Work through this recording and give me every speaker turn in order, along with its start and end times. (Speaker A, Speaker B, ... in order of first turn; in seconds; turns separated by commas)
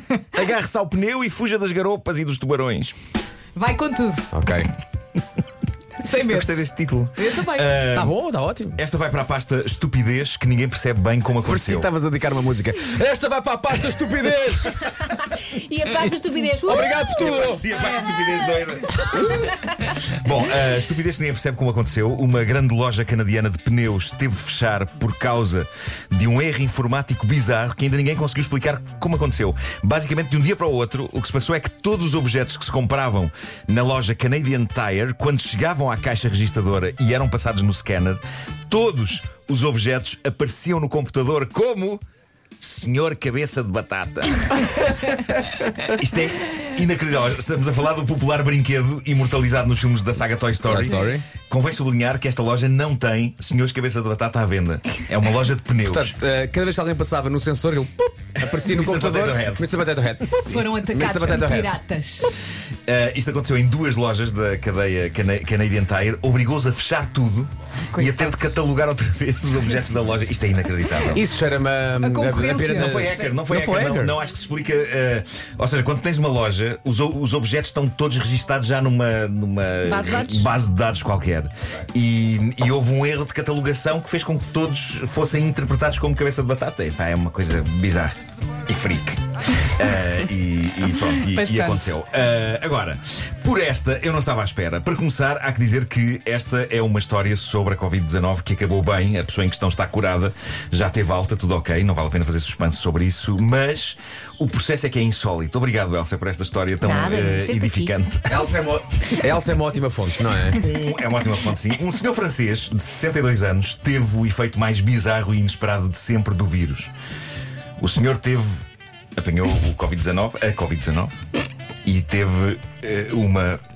Speaker A: 0.3-3.0, Speaker B: 3.6-4.3, Speaker C: 4.3-4.7, Speaker B: 6.0-7.9, Speaker A: 6.2-8.2, Speaker C: 8.0-8.8, Speaker A: 8.8-11.9, Speaker C: 11.4-14.9, Speaker D: 15.5-17.4, Speaker C: 16.7-17.7, Speaker A: 16.9-19.2, Speaker D: 18.9-19.2, Speaker A: 20.0-42.0, Speaker A: 42.6-45.1, Speaker A: 45.9-56.2, Speaker C: 50.7-51.2, Speaker C: 55.9-61.7, Speaker A: 58.4-59.7, Speaker B: 60.3-62.3, Speaker A: 62.9-71.3, Speaker B: 67.9-68.6, Speaker C: 71.1-74.2, Speaker B: 72.0-73.1, Speaker A: 72.7-88.2, Speaker D: 79.8-80.5, Speaker A: 88.7-108.5, Speaker B: 91.2-91.9, Speaker D: 106.8-108.0, Speaker C: 108.3-110.6, Speaker A: 110.5-116.9, Speaker A: 117.8-118.6, Speaker A: 119.2-121.2, Speaker A: 121.9-123.6